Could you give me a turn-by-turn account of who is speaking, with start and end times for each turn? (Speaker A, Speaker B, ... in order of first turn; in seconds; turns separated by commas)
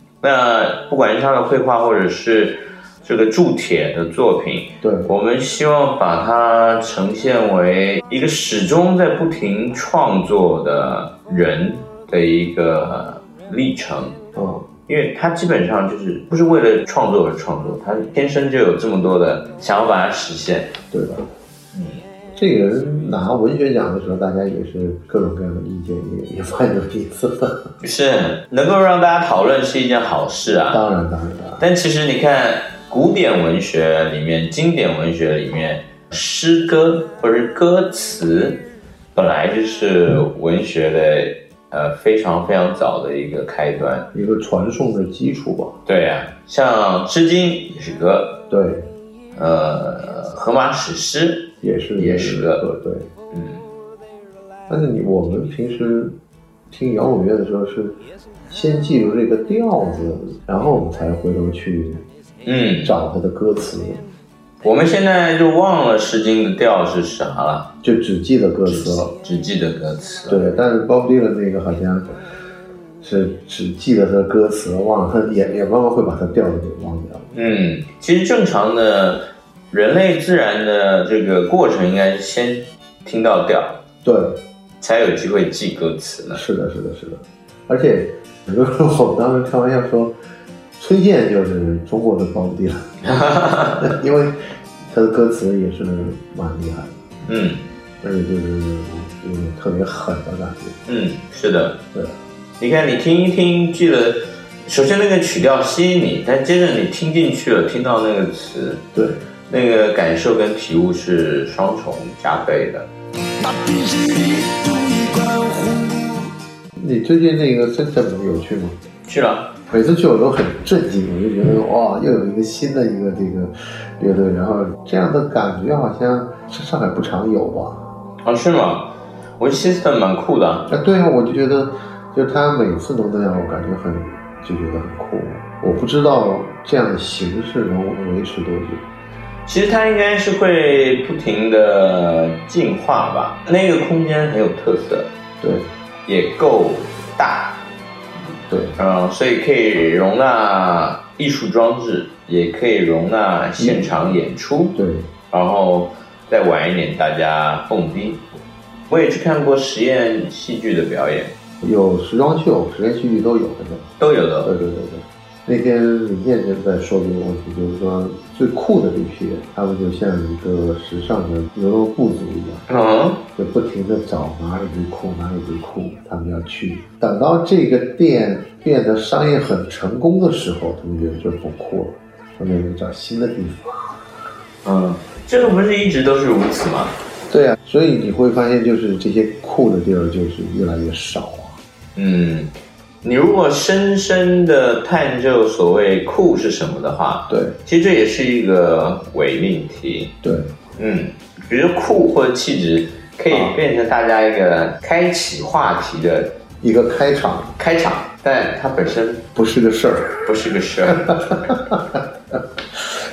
Speaker A: 0.2-14.2, Speaker B: 4.8-5.1, Speaker B: 14.3-14.7, Speaker A: 14.9-20.7, Speaker B: 20.9-21.3, Speaker A: 21.7-22.0, Speaker B: 22.4-27.6, Speaker A: 27.8-30.8, Speaker B: 30.7-31.6, Speaker A: 31.6-44.1, Speaker B: 44.1-45.8, Speaker A: 45.9-48.4, Speaker B: 48.5-48.9, Speaker A: 49.4-52.6, Speaker B: 51.6-53.1, Speaker A: 53.3-53.6, Speaker B: 54.7-56.2, Speaker B: 56.7-58.0, Speaker B: 58.5-62.0, Speaker A: 62.4-62.9, Speaker B: 62.8-64.0, Speaker A: 64.6-67.7, Speaker B: 67.8-69.1, Speaker A: 68.7-70.4, Speaker B: 70.3-72.1, Speaker B: 73.0-77.3, Speaker A: 77.3-83.8, Speaker B: 84.0-84.4, Speaker A: 84.8-86.4, Speaker B: 86.3-90.2, Speaker B: 90.8-92.9, Speaker A: 93.0-94.0, Speaker B: 93.8-97.0, Speaker A: 97.2-97.6, Speaker B: 98.0-100.8, Speaker A: 100.9-101.8, Speaker A: 102.6-108.8, Speaker B: 108.9-109.2, Speaker A: 109.5-112.9, Speaker C: 113.4-116.3, Speaker B: 116.8-118.8, Speaker A: 119.1-119.5, Speaker B: 119.7-127.8, Speaker A: 128.2-130.7, Speaker B: 130.7-138.8, Speaker A: 139.4-145.1, Speaker B: 145.4-145.7, Speaker A: 146.1-147.6, Speaker B: 148.5-148.8, Speaker A: 148.8-154.8, Speaker B: 153.6-154.1, Speaker B: 154.8-155.1, Speaker A: 155.3-158.2, Speaker A: 158.9-161.4, Speaker B: 161.6-172.6, Speaker A: 164.0-164.5, Speaker A: 172.7-173.2, Speaker B: 173.4-184.0, Speaker A: 184.6-186.9, Speaker B: 187.3-191.6, Speaker A: 191.9-200.1, Speaker B: 197.3-197.6, Speaker B: 200.2-200.5, Speaker A: 200.8-206.4, Speaker B: 203.3-203.6, Speaker B: 206.6-207.5, Speaker A: 207.6-209.3, Speaker B: 209.3-210.3, Speaker A: 210.2-211.4, Speaker B: 210.9-212.4